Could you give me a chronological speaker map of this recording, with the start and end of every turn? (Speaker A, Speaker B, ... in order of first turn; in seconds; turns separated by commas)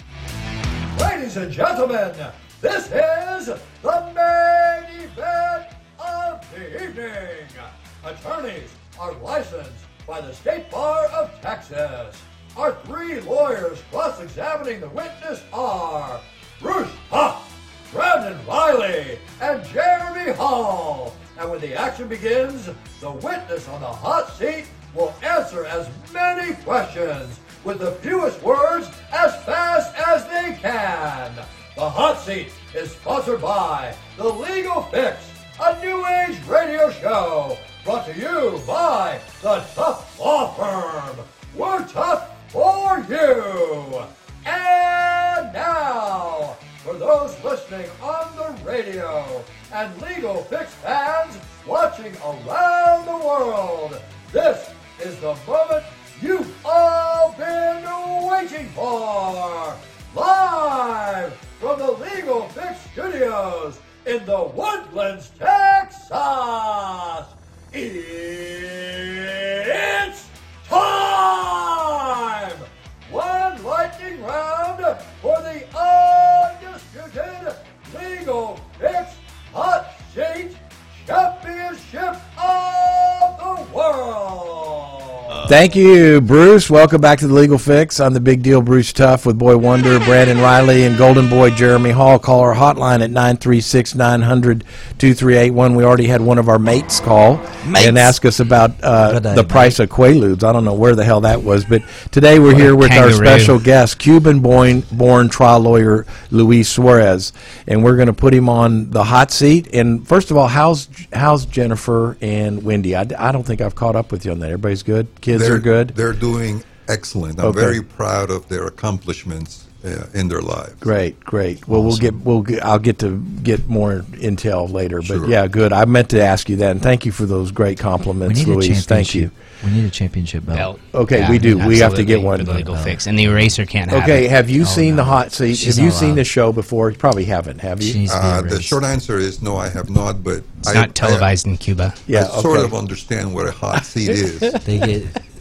Speaker A: 0.9-85.5, Speaker B: 85.5-115.9, Speaker C: 97.6-98.1, Speaker C: 99.0-99.8, Speaker D: 102.5-103.6, Speaker E: 115.3-120.9, Speaker B: 117.4-117.8, Speaker B: 120.8-129.3, Speaker C: 121.7-122.2, Speaker E: 125.0-125.4, Speaker C: 128.2-130.7, Speaker D: 130.5-134.3, Speaker B: 130.9-132.5, Speaker C: 131.2-133.0, Speaker B: 133.9-138.0, Speaker C: 134.6-136.2, Speaker C: 137.8-138.8, Speaker E: 138.1-141.3, Speaker D: 140.7-142.0, Speaker B: 142.1-142.7, Speaker E: 142.1-144.6, Speaker C: 144.6-145.2